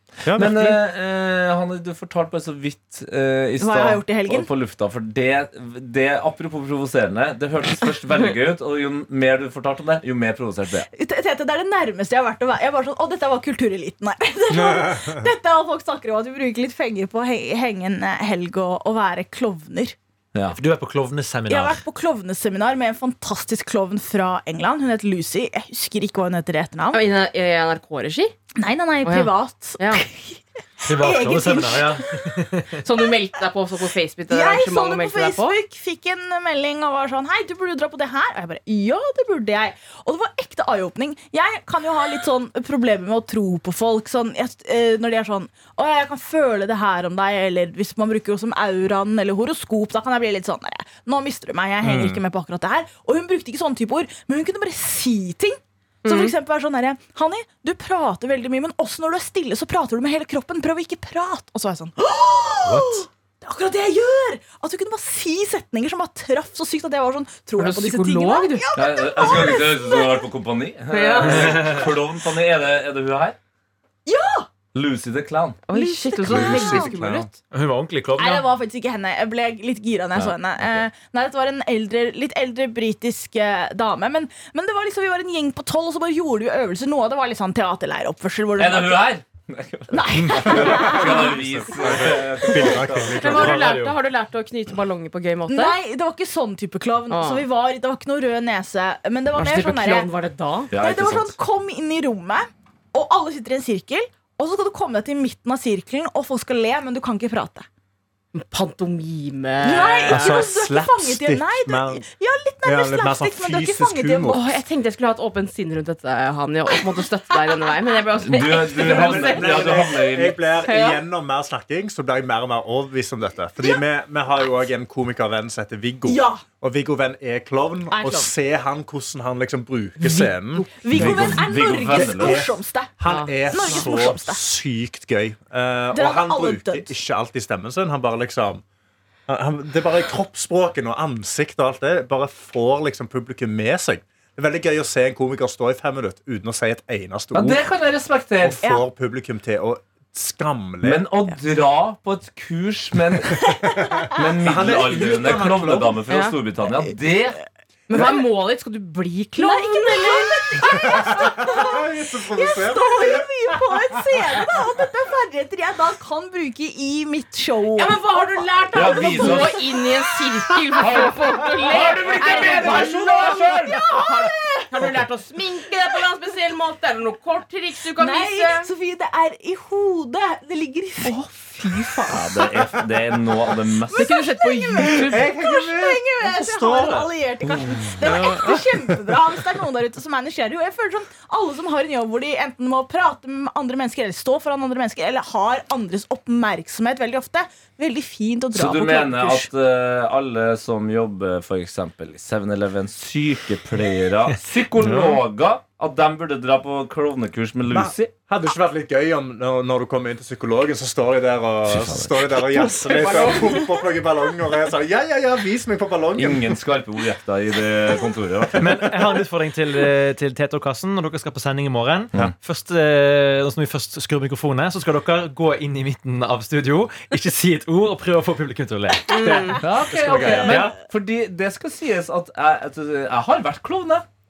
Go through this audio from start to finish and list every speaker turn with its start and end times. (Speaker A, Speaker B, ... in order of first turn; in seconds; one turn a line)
Speaker A: 0.2-0.8
Speaker B: 0.3-10.9
Speaker C: 3.6-4.5
Speaker C: 10.9-20.0
Speaker A: 14.5-15.2
Speaker B: 20.3-20.6
Speaker D: 20.5-21.8
Speaker C: 21.5-27.1
Speaker E: 26.9-28.3
Speaker C: 28.6-32.0
Speaker E: 29.0-30.1
Speaker D: 30.9-32.8
Speaker E: 32.8-35.6
Speaker C: 34.3-70.2
Speaker A: 51.8-52.2
Speaker E: 56.0-56.3
Speaker D: 62.7-63.0
Speaker E: 67.6-68.7
Speaker B: 68.7-73.4
Speaker E: 70.9-71.6
Speaker D: 71.4-71.9
Speaker C: 74.1-74.5
Speaker B: 74.7-75.7
Speaker E: 75.7-77.3
Speaker C: 75.7-76.9
Speaker A: 76.2-77.3
Speaker D: 77.5-78.5
Speaker C: 78.2-89.2
Speaker B: 80.2-80.9
Speaker B: 88.6-93.2
Speaker C: 89.9-91.4
Speaker A: 90.5-93.7
Speaker D: 93.1-94.0
Speaker E: 93.2-95.8
Speaker C: 95.5-100.1
Speaker E: 97.1-97.5
Speaker E: 99.3-100.7
Speaker B: 100.7-101.4
Speaker C: 100.8-107.7
Speaker E: 108.3-110.4
Speaker C: 109.6-114.5
Speaker A: 110.1-112.0
Speaker A: 112.6-114.5
Speaker E: 114.3-121.0
Speaker B: 118.2-120.4
Speaker A: 118.8-131.4
Speaker C: 126.1-126.4
Speaker C: 127.9-128.3
Speaker C: 130.0-134.4
Speaker B: 130.9-132.4
Speaker A: 132.0-138.6
Speaker E: 133.1-133.9
Speaker C: 135.9-136.9
Speaker A: 139.3-147.6
Speaker B: 147.3-148.6
Speaker A: 148.4-151.0
Speaker B: 150.8-153.6
Speaker B: 154.1-157.4
Speaker A: 154.4-156.0
Speaker E: 156.1-156.3
Speaker E: 157.9-160.7
Speaker C: 159.4-169.7
Speaker A: 160.9-164.2
Speaker E: 167.8-173.6
Speaker B: 168.7-169.6
Speaker C: 170.8-175.0
Speaker B: 170.8-173.9
Speaker E: 174.7-178.7
Speaker C: 178.0-182.8
Speaker E: 181.0-182.1
Speaker B: 182.1-184.1
Speaker C: 183.9-199.5
Speaker E: 183.9-185.3
Speaker A: 185.0-189.1
Speaker B: 198.5-208.1
Speaker A: 204.8-205.2
Speaker A: 207.7-216.6
Speaker B: 211.7-212.7
Speaker C: 212.9-213.8
Speaker B: 216.2-218.8
Speaker D: 218.6-229.4
Speaker E: 229.1-229.6
Speaker A: 229.3-230.7
Speaker B: 229.6-234.1
Speaker D: 230.4-230.8